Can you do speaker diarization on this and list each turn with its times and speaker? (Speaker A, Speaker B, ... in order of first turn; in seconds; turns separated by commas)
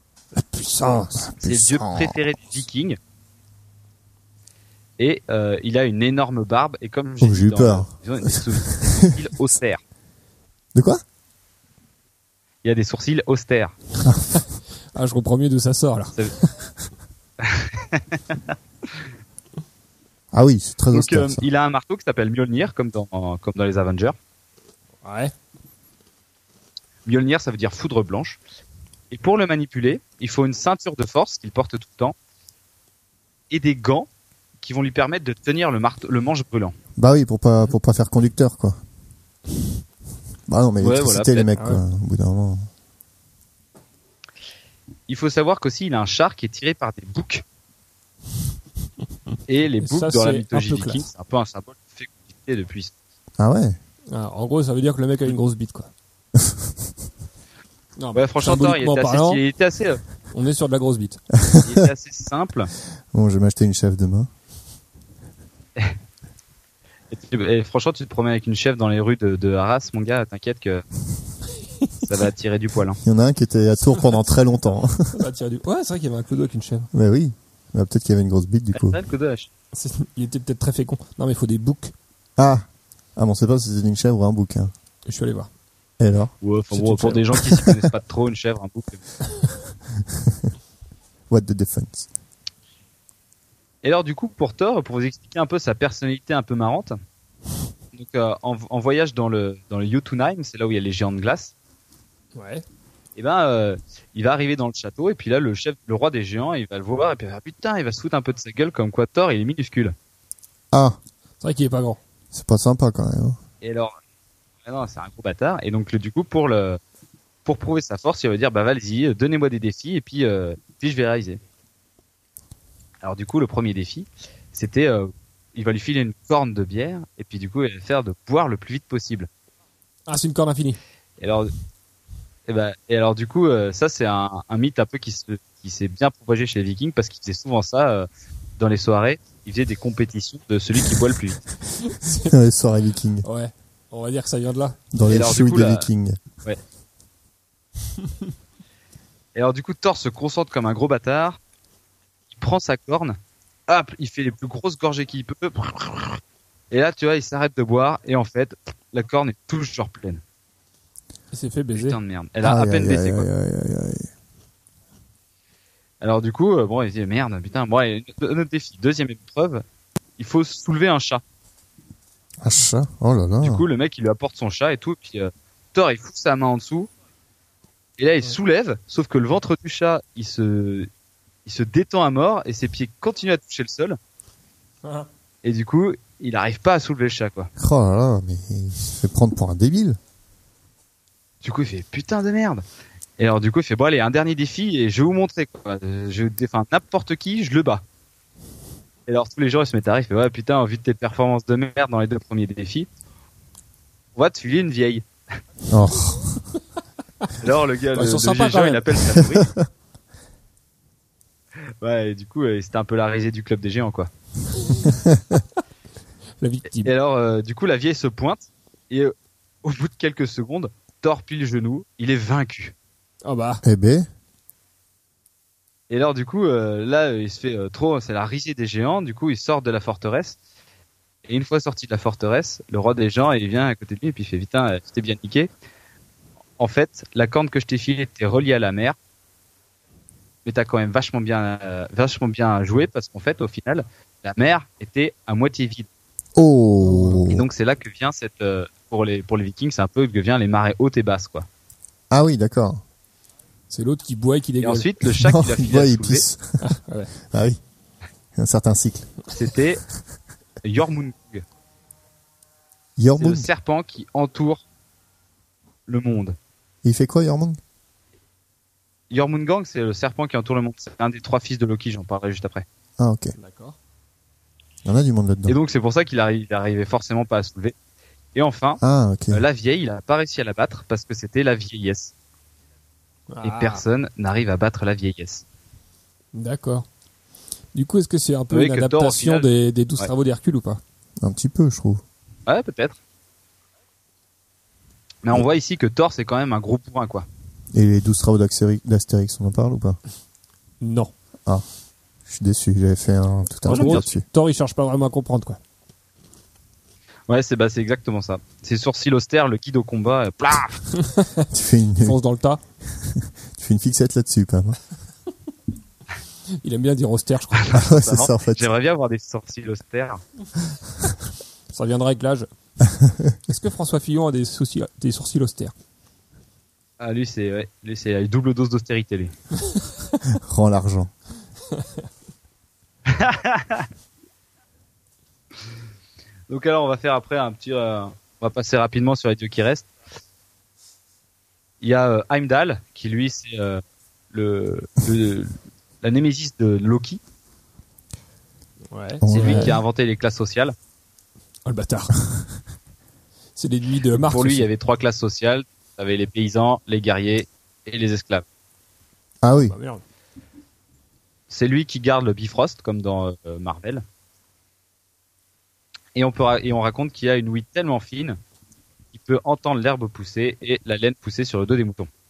Speaker A: 0.3-1.2, Speaker B: 1.1-2.2, Speaker C: 1.4-3.0, Speaker C: 5.0-9.8, Speaker B: 7.2-9.2, Speaker B: 10.7-11.0, Speaker C: 12.6-13.7, Speaker B: 14.0-14.3, Speaker A: 14.9-16.5, Speaker C: 17.4-18.5, Speaker B: 20.3-21.5, Speaker C: 20.9-24.1, Speaker A: 25.0-25.3, Speaker C: 27.1-28.4, Speaker C: 29.1-32.1, Speaker C: 33.5-34.1, Speaker C: 34.6-36.7, Speaker B: 37.0-38.8, Speaker B: 40.5-42.7, Speaker C: 40.8-41.5, Speaker C: 45.1-47.4, Speaker C: 49.5-52.9, Speaker A: 49.8-51.0, Speaker B: 53.4-53.8, Speaker A: 54.1-55.9, Speaker A: 58.0-59.4, Speaker C: 58.1-60.0, Speaker A: 60.3-61.2, Speaker B: 61.4-61.9, Speaker C: 61.6-62.7, Speaker B: 63.1-64.3, Speaker C: 67.1-70.8, Speaker C: 72.0-73.0, Speaker B: 73.0-75.2, Speaker A: 75.1-76.9, Speaker B: 76.9-79.0, Speaker C: 78.7-79.5, Speaker A: 79.7-81.9, Speaker B: 82.4-84.7, Speaker A: 85.1-85.5, Speaker B: 86.0-86.3, Speaker C: 86.4-89.0, Speaker A: 86.7-87.8, Speaker B: 91.3-92.1, Speaker C: 93.8-97.0, Speaker C: 97.9-101.5, Speaker A: 102.3-102.6, Speaker C: 103.2-109.9, Speaker B: 110.7-111.0, Speaker A: 111.4-112.0, Speaker B: 112.3-113.4, Speaker C: 113.6-113.9, Speaker C: 114.6-116.8, Speaker C: 117.4-121.4, Speaker C: 123.0-129.3, Speaker A: 130.1-130.8, Speaker C: 131.2-131.5, Speaker C: 132.5-138.1, Speaker C: 138.6-141.4, Speaker A: 141.8-142.3, Speaker B: 142.0-143.2, Speaker A: 143.2-144.8, Speaker B: 144.9-146.2, Speaker C: 145.1-145.9, Speaker C: 149.3-151.4, Speaker C: 152.3-156.2, Speaker C: 156.7-160.2, Speaker A: 161.3-162.0, Speaker C: 161.7-163.3, Speaker B: 162.4-164.1, Speaker C: 166.0-169.6, Speaker C: 170.2-171.2, Speaker B: 172.4-173.6, Speaker C: 173.4-176.9, Speaker C: 178.0-180.9, Speaker C: 181.4-184.0, Speaker C: 185.4-187.5, Speaker B: 187.6-190.0, Speaker C: 191.4-192.6, Speaker C: 193.2-197.8, Speaker C: 199.1-202.9, Speaker C: 204.1-205.0, Speaker B: 205.7-206.4, Speaker C: 207.4-209.5, Speaker A: 207.9-208.8, Speaker B: 209.3-209.6, Speaker C: 211.8-214.1, Speaker B: 214.8-215.2, Speaker A: 216.4-216.9, Speaker C: 216.8-222.7, Speaker A: 223.2-223.6, Speaker B: 223.6-224.1, Speaker C: 225.9-230.4, Speaker C: 231.2-235.5, Speaker C: 236.6-238.9, Speaker C: 240.4-245.9, Speaker B: 246.3-247.4, Speaker A: 246.8-247.3, Speaker C: 247.2-251.5, Speaker B: 252.1-252.8, Speaker A: 253.7-254.9, Speaker C: 254.6-256.2, Speaker B: 255.0-256.6, Speaker A: 256.6-257.1, Speaker B: 257.3-257.6, Speaker B: 258.4-259.1, Speaker C: 259.3-259.8, Speaker C: 260.6-261.4, Speaker B: 263.0-263.5, Speaker C: 263.2-264.6, Speaker C: 265.9-266.4, Speaker B: 266.8-267.6, Speaker C: 269.1-272.6, Speaker B: 273.0-273.3, Speaker A: 273.4-273.8, Speaker B: 274.8-275.6, Speaker C: 275.5-277.7, Speaker C: 278.3-278.8, Speaker B: 278.8-279.4, Speaker C: 279.3-282.1, Speaker A: 283.3-283.8, Speaker C: 283.4-285.4, Speaker A: 286.3-286.9, Speaker A: 287.7-290.8, Speaker C: 288.5-289.5, Speaker B: 291.2-292.0, Speaker C: 292.5-293.0, Speaker C: 295.2-297.2, Speaker B: 297.7-300.0, Speaker A: 300.8-301.1, Speaker B: 302.3-304.2, Speaker A: 303.6-305.6, Speaker C: 303.7-304.1, Speaker C: 307.3-310.8, Speaker A: 310.9-311.5, Speaker B: 311.5-312.2, Speaker A: 312.0-312.6, Speaker B: 312.9-314.8, Speaker A: 316.6-317.8, Speaker C: 317.5-320.2, Speaker B: 317.7-318.7, Speaker A: 321.7-322.5, Speaker B: 322.8-323.4, Speaker A: 323.5-325.7, Speaker C: 327.0-329.3, Speaker B: 330.2-331.1, Speaker C: 333.1-333.9, Speaker C: 336.5-339.9, Speaker C: 341.8-347.2, Speaker A: 348.9-349.7, Speaker B: 349.2-349.8, Speaker C: 349.3-350.7, Speaker A: 351.6-352.1, Speaker A: 353.6-354.6, Speaker C: 354.1-358.4, Speaker B: 359.4-359.7, Speaker A: 359.6-360.0, Speaker C: 361.5-364.0, Speaker C: 366.1-368.4, Speaker C: 369.1-372.1